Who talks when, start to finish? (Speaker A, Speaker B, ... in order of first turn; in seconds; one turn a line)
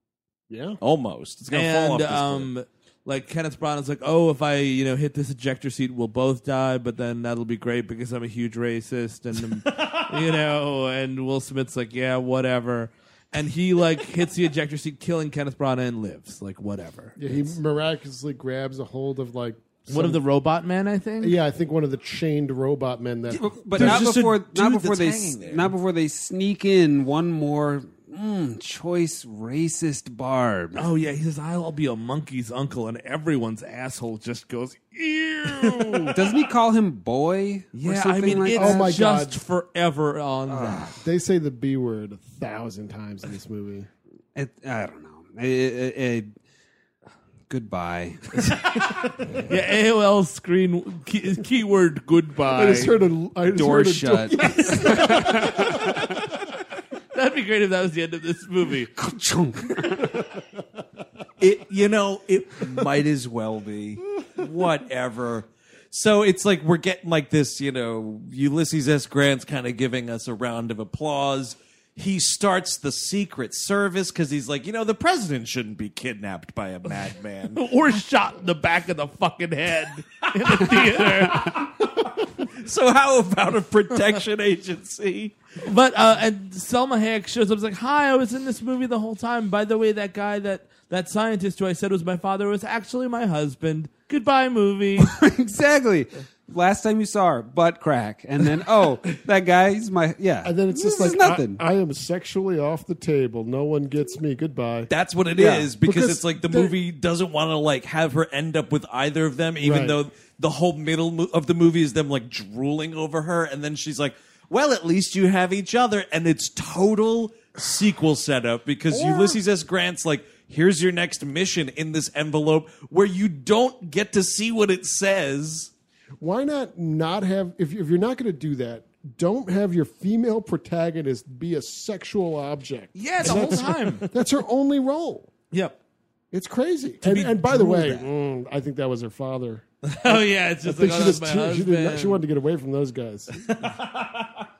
Speaker A: 0.5-0.8
Speaker B: 0.8-2.5
Speaker C: 1.5-17.5
Speaker A: 17.2-20.2
Speaker C: 19.9-21.4
Speaker A: 21.2-24.0
Speaker D: 23.3-30.9
Speaker B: 23.7-25.7
Speaker C: 30.8-36.2
Speaker D: 36.1-38.9
Speaker C: 37.7-40.9
Speaker A: 38.5-39.4
Speaker D: 40.5-41.0
Speaker A: 41.0-43.9
Speaker D: 44.4-46.4
Speaker D: 47.5-48.7
Speaker C: 49.4-53.0
Speaker A: 52.5-56.0
Speaker D: 53.5-55.9
Speaker C: 57.1-58.9
Speaker D: 59.0-60.2
Speaker B: 61.4-77.6
Speaker C: 77.5-81.7
Speaker B: 80.5-85.4
Speaker C: 85.6-95.1
Speaker D: 95.0-101.6
Speaker A: 100.4-106.8
Speaker B: 104.9-125.7
Speaker A: 109.6-110.0
Speaker A: 118.9-119.4
Speaker A: 126.2-135.3
Speaker C: 132.9-134.1
Speaker C: 135.5-135.8
Speaker A: 136.3-143.3
Speaker B: 137.1-138.0
Speaker C: 137.1-138.0
Speaker C: 139.8-142.2
Speaker B: 143.4-144.3